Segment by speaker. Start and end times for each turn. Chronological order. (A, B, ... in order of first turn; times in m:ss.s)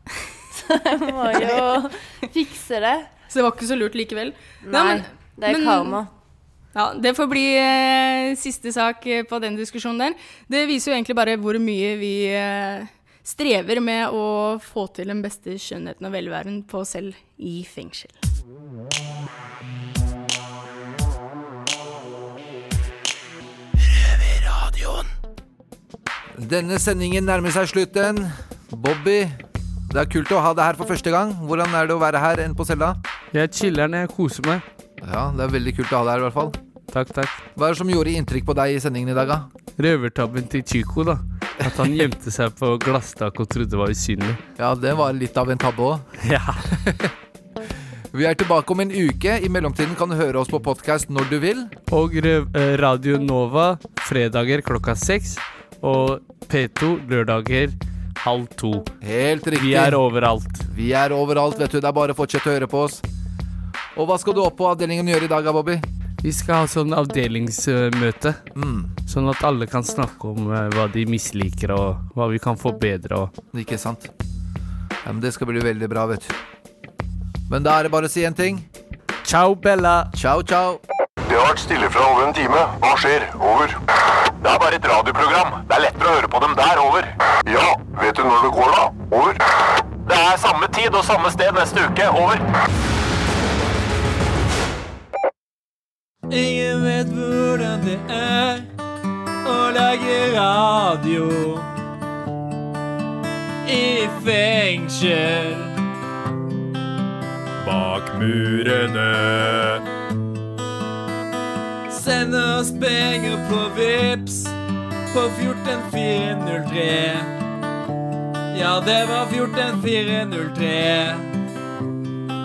0:00.6-0:03.1 A
0:01.3-0:01.6 B
0:03.3-0:06.0 B
0:04.6-0:06.1 A
0:06.8-0:18.2 B
0:26.4-0:29.4 C
0:29.9-0:33.0 C
0:33.3-0:34.6 D
0:35.0-0:36.6 C
0:36.9-0:37.4 D
0:37.6-0:39.5 C
0:39.8-0:44.4 D
0:41.6-0:41.9 C
0:44.6-0:46.0 C
0:46.2-0:46.8 D
0:48.1-0:51.7 C
0:51.9-0:58.9 D
0:59.0-1:00.0 C
0:59.6-1:00.6 D
1:00.7-1:03.0 C
1:04.0-1:05.8 C
1:06.2-1:08.4 D
1:08.6-1:08.9 C
1:09.1-1:13.3 D
1:13.5-1:14.1 C
1:15.0-1:16.3 C
1:17.5-1:18.7 C
1:19.2-1:20.1 D
1:20.2-1:20.8 C
1:21.3-1:23.8 E
1:24.4-1:29.4 E
1:30.0-1:32.4 E
1:36.3-1:38.7 F
1:39.4-1:41.7 F
1:43.6-1:45.7 F
1:47.6-1:49.8 F
1:51.9-1:54.5 F
1:55.1-1:57.3 F
1:58.5-2:01.2 F